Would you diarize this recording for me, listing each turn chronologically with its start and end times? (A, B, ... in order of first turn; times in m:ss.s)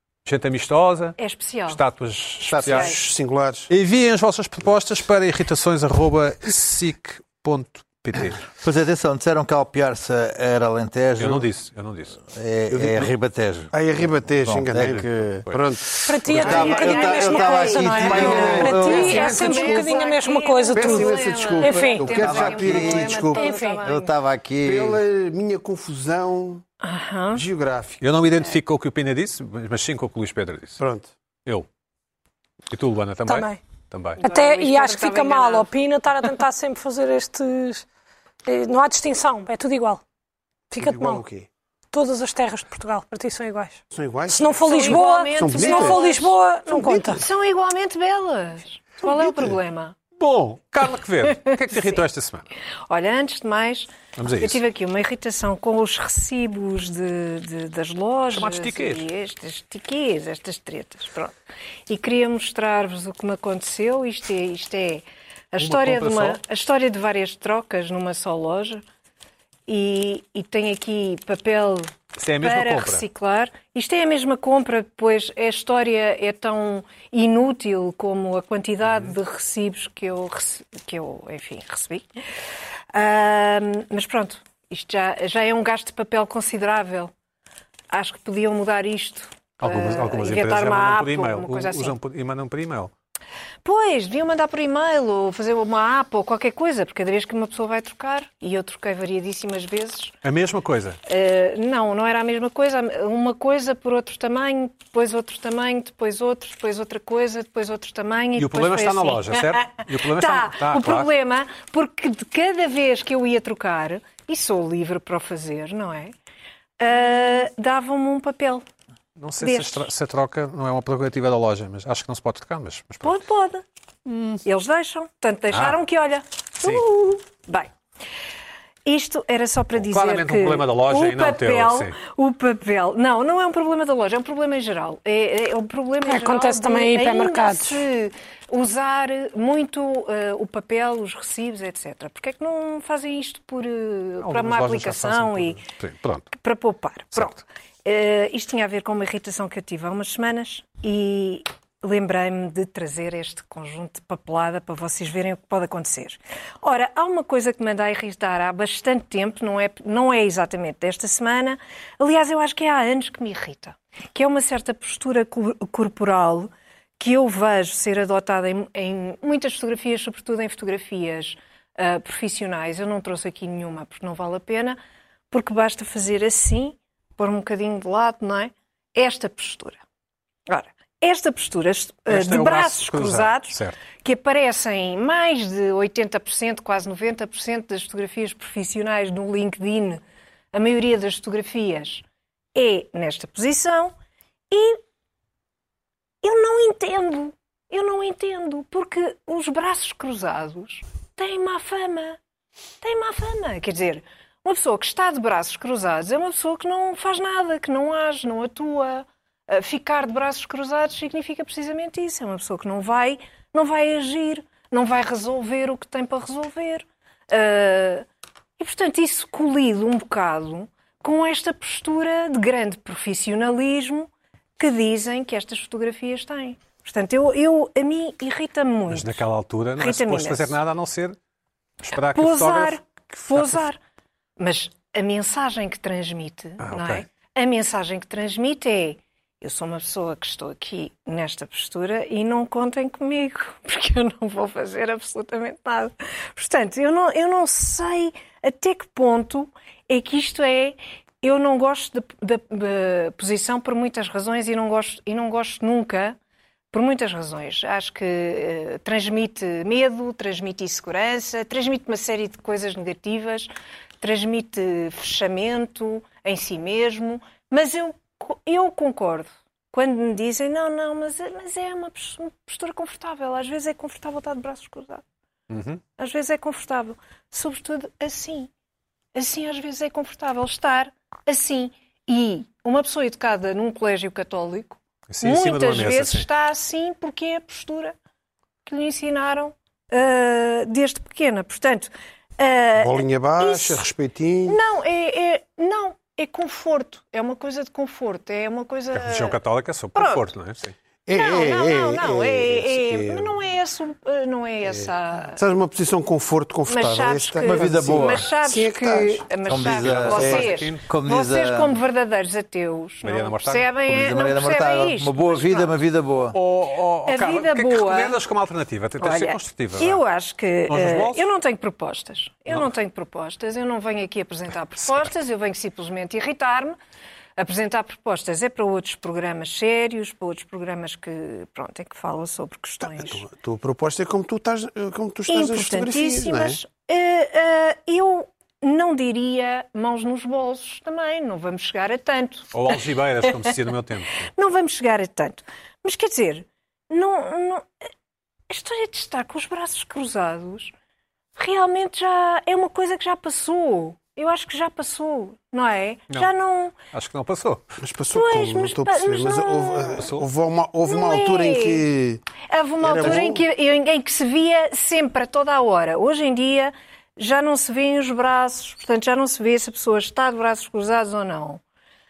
0:00.2-0:01.2 A
0:01.2-0:01.8 B
0:01.7-0:03.0 A
0:02.5-0:03.7 C
0:02.6-0:03.0 B
0:03.7-0:08.4 A
0:08.4-0:11.5 D
0:11.2-0:12.2 A
0:12.2-0:15.5 D
0:12.8-0:13.1 C
0:13.7-0:20.0 C
0:16.0-0:22.1 E
0:16.2-0:19.3 D
0:16.4-0:24.1 B
0:20.7-0:23.5 C
0:22.2-0:23.3 D
0:23.3-0:23.8 E
0:23.8-0:25.0 D
0:24.6-0:26.6 C
0:26.8-0:27.4 B
0:27.3-0:28.0 C
0:28.0-0:30.8 A
0:30.8-0:31.1 C
0:32.7-0:34.2 A
0:33.3-0:33.6 E
0:34.2-0:35.7 B
0:34.2-0:37.8 E
0:38.4-0:40.0 E
0:40.7-0:41.2 E
0:40.8-0:41.5 C
0:41.9-0:47.2 E
0:43.9-0:46.1 C
0:44.6-0:46.4 B
0:46.7-0:47.1 C
0:47.0-0:49.9 B
0:49.0-0:49.6 C
0:50.2-0:52.4 A
0:51.2-0:52.0 B
0:52.9-1:01.3 B
0:54.2-0:54.6 A
0:58.3-0:59.1 A
1:01.9-1:08.8 B
1:05.6-1:06.4 A
1:09.7-1:22.2 B
1:12.2-1:13.0 A
1:18.8-1:19.1 A
1:22.9-1:27.1 B
1:27.9-1:32.0 B
1:29.6-1:32.9 A
1:33.6-1:40.2 B
1:40.2-1:41.0 A
1:41.1-1:56.1 B
1:48.4-1:51.1 A
1:56.8-1:58.6 B
1:59.2-2:03.2 A
1:59.4-1:59.9 B
2:03.0-2:03.6 B
2:04.0-2:04.4 A
2:04.4-2:07.7 B
2:05.5-2:05.8 A
2:08.8-2:25.6 B
2:09.8-2:12.0 A
2:16.0-2:17.8 E
2:24.2-2:26.3 A
2:26.3-2:54.8 B
2:27.1-2:27.4 A
2:55.3-2:59.8 B
3:00.5-3:10.0 B
3:02.1-3:03.8 A
3:10.5-3:13.9 B
3:14.5-3:14.8 B
3:16.2-3:22.2 B
3:22.8-3:38.1 B
3:38.6-3:49.2 B
3:48.9-3:51.2 A
3:49.8-3:50.6 B
3:51.8-3:52.8 A
3:52.0-3:53.8 B
3:54.4-4:16.2 B
3:56.6-3:57.0 A
4:16.7-4:35.0 B
4:35.5-4:35.8 A
4:36.0-4:38.5 B
4:39.1-4:47.9 B
4:45.1-4:46.3 A
4:48.6-4:53.8 B
4:52.8-4:54.6 C
4:54.5-4:59.4 B
4:58.9-5:00.7 A
4:59.9-5:00.3 B
5:01.0-5:03.4 C
5:01.1-5:05.4 B
5:04.6-5:09.3 C
5:06.7-5:15.8 B
5:07.4-5:08.3 D
5:09.4-5:11.8 D
5:09.8-5:10.8 A
5:13.0-5:13.7 A
5:13.9-5:16.4 D
5:16.3-5:20.0 A
5:17.1-5:18.2 B
5:19.0-5:26.8 B
5:20.7-5:21.3 A
5:27.4-5:33.2 B
5:32.8-5:36.6 C
5:35.3-5:43.4 B
5:42.5-5:44.3 A
5:44.2-5:47.7 B
5:48.5-5:50.7 B
5:51.4-5:56.7 B
5:56.9-5:57.6 A
5:57.8-6:02.2 C
5:58.1-6:00.1 B
6:00.0-6:00.2 A
6:00.8-6:01.8 B
6:02.4-6:11.6 B
6:02.8-6:03.4 C